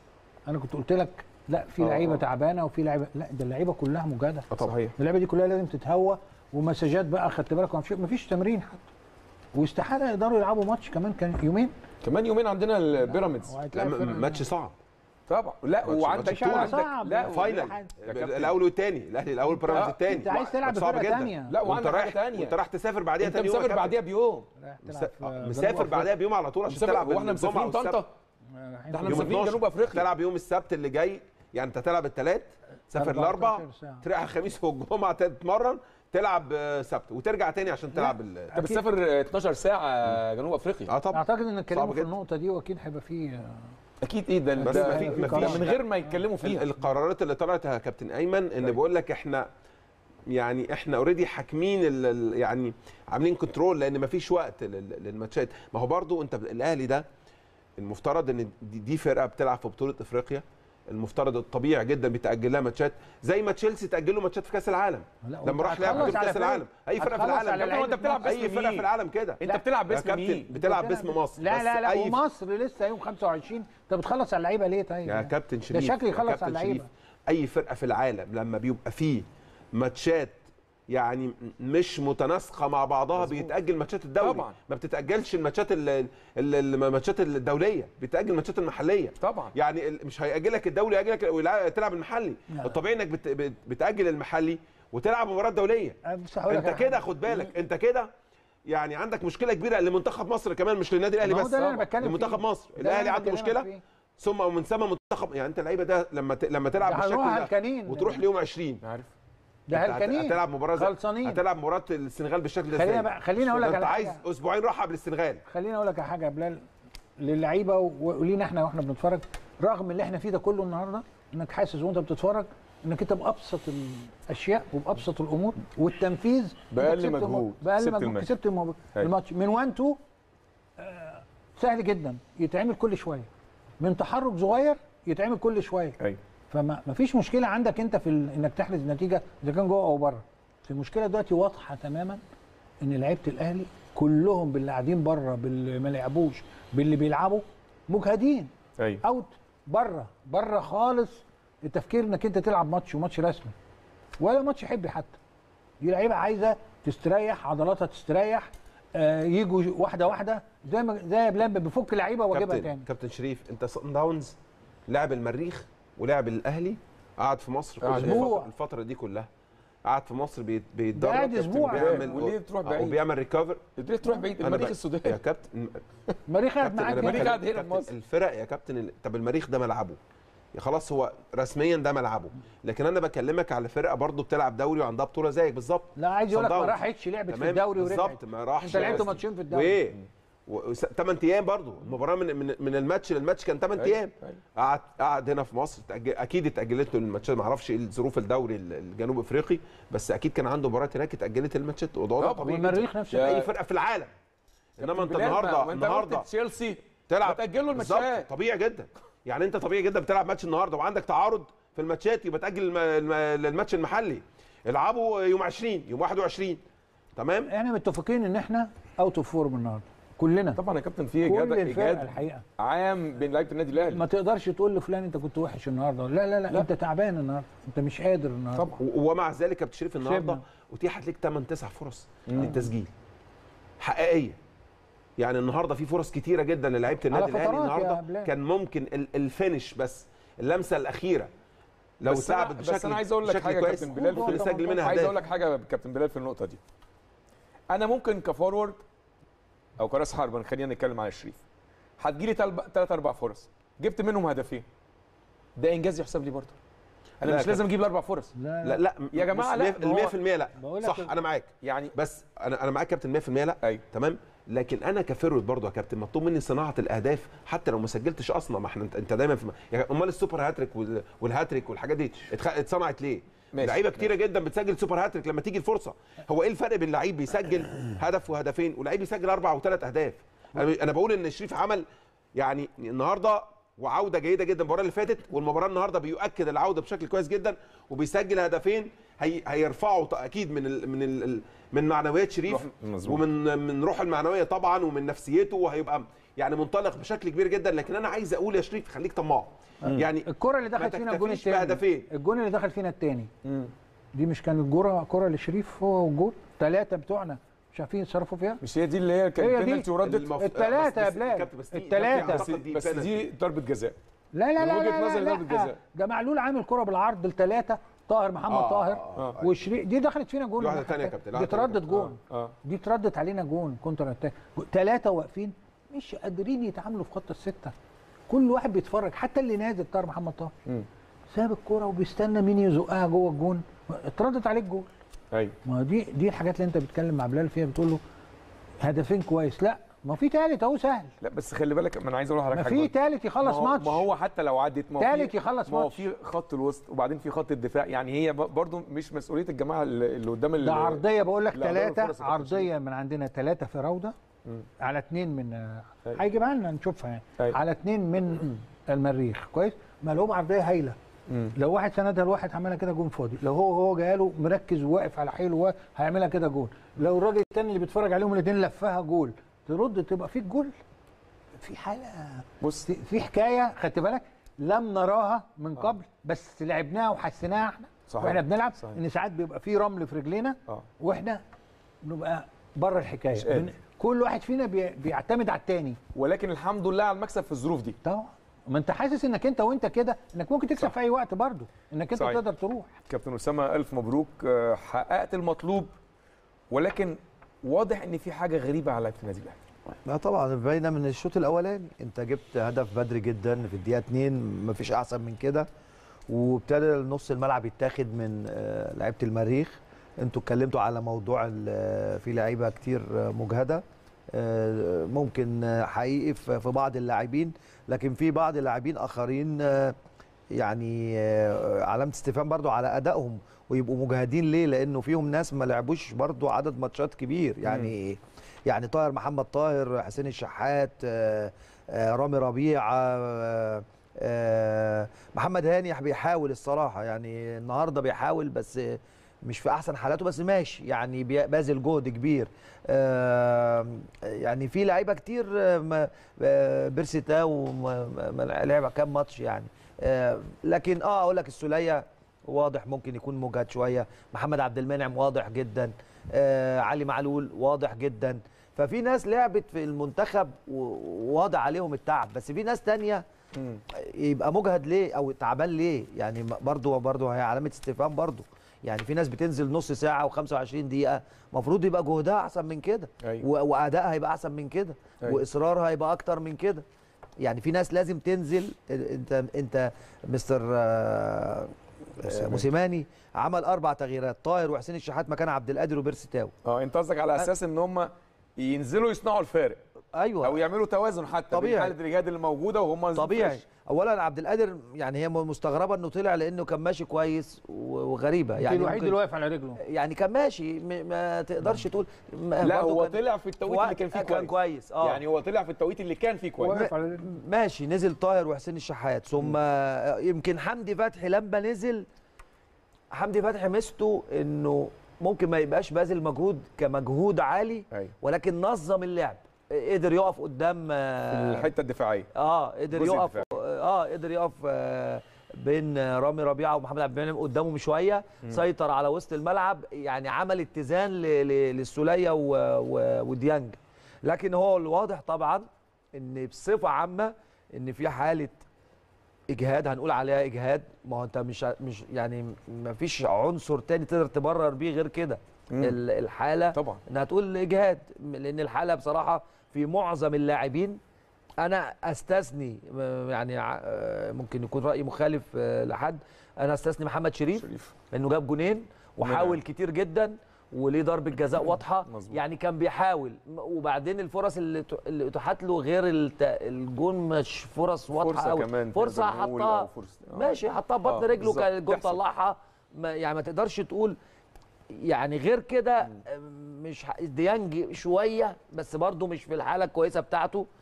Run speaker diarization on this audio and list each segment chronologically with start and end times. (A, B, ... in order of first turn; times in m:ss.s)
0:00.5-0:04.4 A
0:01.8-0:02.2 B
0:04.6-0:04.9 B
0:05.0-0:08.8 A
0:09.6-0:11.7 A
0:12.0-0:13.5 B
0:13.1-0:14.4 A
0:13.7-0:14.7 C
0:15.3-0:17.5 B
0:15.8-0:24.0 C
0:16.1-0:17.9 A
0:18.0-0:18.6 B
0:19.6-0:21.5 A
0:19.7-0:20.0 B
0:21.5-0:22.6 B
0:23.2-0:24.5 B
0:24.6-0:26.1 A
0:24.8-0:28.0 C
0:26.7-0:28.1 B
0:28.6-0:29.4 A
0:28.9-0:30.1 B
0:29.1-0:38.5 C
0:32.9-0:34.0 A
0:37.9-0:38.8 A
0:38.6-0:40.9 B
0:40.9-0:42.1 C
0:41.1-0:43.6 A
0:44.0-0:46.6 B
0:44.6-0:45.7 A
0:44.6-0:45.8 C
0:46.4-0:49.5 C
0:50.3-0:57.0 C
0:57.8-1:12.2 C
1:05.2-1:08.4 A
1:05.8-1:06.2 B
1:07.5-1:08.9 B
1:09.4-1:10.5 B
1:10.5-1:16.9 A
1:15.0-1:19.2 C
1:19.8-1:20.4 C
1:20.9-1:36.0 C
1:23.2-1:23.5 B
1:24.2-1:24.5 B
1:29.2-1:29.5 B
1:32.5-1:32.8 A
1:36.1-1:37.4 A
1:36.5-1:38.1 C
1:38.7-1:43.7 C
1:41.2-1:43.8 A
1:44.2-1:48.8 C
1:46.8-1:48.2 A
1:48.8-1:49.1 B
1:49.7-1:51.4 A
1:49.7-1:55.4 C
1:52.8-1:54.2 A
1:55.5-1:56.6 A
1:57.2-2:10.0 A
2:06.7-2:08.3 B
2:10.8-2:13.3 A
2:13.8-2:15.9 A
2:16.5-2:22.2 A
2:22.8-2:28.5 A
2:29.0-2:33.5 A
2:34.2-2:35.2 A
2:35.8-2:42.8 A
2:42.3-2:44.3 C
2:44.9-2:49.3 C
2:47.8-2:48.3 B
2:47.9-2:48.5 A
2:49.8-2:53.6 C
2:50.9-2:52.1 A
2:51.7-2:53.0 B
2:53.8-2:55.2 B
2:54.4-2:55.8 C
2:56.3-2:57.4 A
2:56.6-3:00.0 C
2:56.9-2:57.9 B
3:00.5-3:06.8 C
3:06.0-3:09.8 A
3:07.3-3:10.0 C
3:10.5-3:24.1 C
3:13.8-3:14.4 B
3:22.2-3:23.5 A
3:23.1-3:23.4 B
3:24.8-3:26.2 C
3:24.8-3:28.3 B
3:27.1-3:36.6 C
3:37.2-3:37.5 C
3:37.5-3:40.6 A
3:40.6-3:44.0 B
3:41.2-3:42.4 A
3:43.9-3:48.7 A
3:48.8-3:52.9 C
3:50.0-3:50.4 A
3:52.3-3:52.6 B
3:53.8-3:54.4 C
3:55.2-4:01.3 C
3:57.1-3:58.3 A
4:02.0-4:05.1 C
4:02.0-4:06.6 B
4:03.8-4:05.2 A
4:07.7-4:08.8 B
4:09.8-4:11.4 B
4:12.0-4:14.6 B
4:15.6-4:16.5 B
4:17.2-4:18.3 B
4:17.2-4:17.6 C
4:18.4-4:18.8 A
4:18.6-4:41.8 C
4:19.1-4:20.1 B
4:20.6-4:21.1 A
4:21.6-4:21.9 B
4:33.5-4:34.1 B
4:42.4-5:02.0 C
4:52.5-4:53.2 B
4:59.8-5:03.3 A
5:03.4-5:03.7 B
5:04.2-5:08.6 A
5:08.6-5:10.4 B
5:09.4-5:12.4 A
5:10.0-5:13.3 C
5:12.0-5:14.0 B
5:14.3-5:27.7 A
5:14.6-5:15.8 B
5:18.5-5:19.4 C
5:20.6-5:22.1 C
5:28.3-5:30.5 A
5:31.3-5:34.9 A
5:35.6-5:38.0 A
5:38.8-5:41.1 A
5:41.2-5:52.7 B
5:42.5-5:44.0 A
5:45.0-5:46.0 A
5:50.6-5:54.1 A
5:54.8-6:01.0 A
6:01.3-6:01.5 B
6:01.6-6:10.7 A
6:11.6-6:21.4 A
6:12.6-6:12.9 B
6:18.1-6:19.0 B
6:22.0-6:26.0 A
6:23.4-6:23.7 B
6:26.1-6:28.0 B
6:28.0-6:32.9 A
6:33.1-6:35.9 B
6:36.7-6:39.6 B
6:40.0-6:45.7 D
6:46.3-7:00.0 D
7:00.6-7:43.2 D
7:43.6-7:43.8 B
7:44.0-7:56.8 D
7:57.4-8:06.5 D
8:02.2-8:02.7 B
8:06.6-8:09.8 B
8:10.1-8:10.6 D
8:10.4-8:13.6 B
8:11.5-8:11.9 D
8:13.1-8:19.2 D
8:18.6-8:19.8 A
8:19.8-8:25.2 D
8:22.6-8:26.8 B
8:26.6-8:27.3 A
8:26.7-8:32.0 D
8:33.1-8:41.7 D
8:41.3-8:42.3 B
8:42.3-8:58.6 D
8:42.9-8:43.4 B
8:59.5-9:11.0 D
9:05.7-9:06.0 B
9:06.7-9:07.0 B
9:11.6-9:34.2 D
9:17.6-9:17.9 B
9:19.2-9:19.6 B
9:22.1-9:22.4 B
9:28.2-9:32.2 B
9:34.9-9:40.7 D